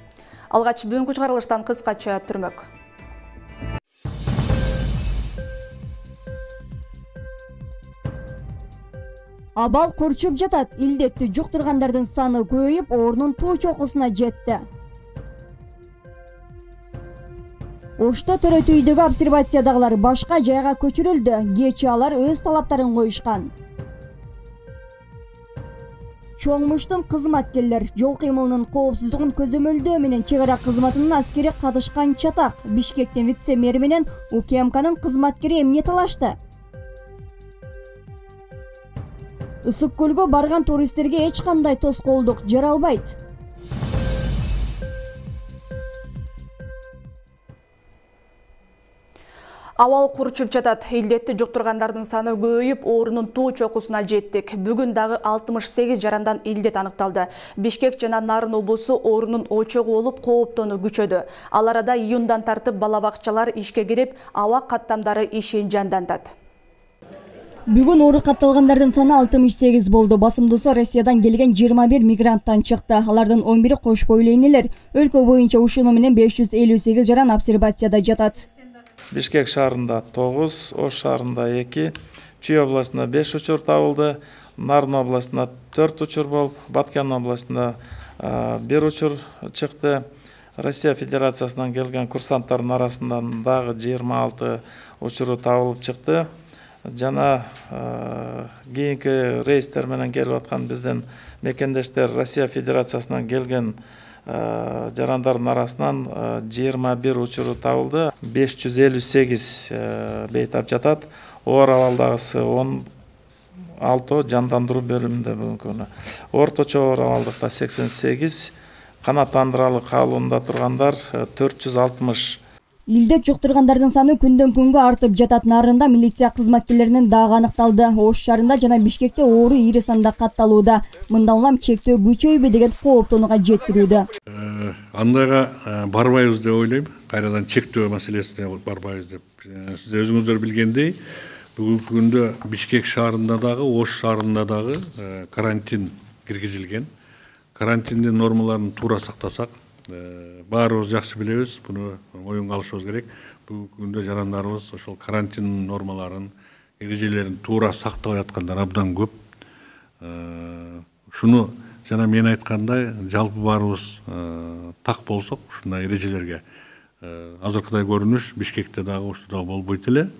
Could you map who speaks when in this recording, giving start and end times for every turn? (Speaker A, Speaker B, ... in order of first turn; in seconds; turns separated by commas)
Speaker A: 0.5-2.7, Speaker B: 9.6-14.6, Speaker B: 18.0-23.5, Speaker B: 26.4-36.4, Speaker B: 39.6-43.1, Speaker A: 49.8-66.3, Speaker B: 67.7-78.4, Speaker C: 79.1-90.0, Speaker C: 90.6-96.3, Speaker C: 96.9-103.7, Speaker C: 104.2-112.9, Speaker C: 113.8-122.4, Speaker B: 122.9-134.1, Speaker D: 134.3-141.0, Speaker D: 141.6-146.9, Speaker D: 147.6-159.2, Speaker D: 160.0-166.4, Speaker D: 167.0-170.1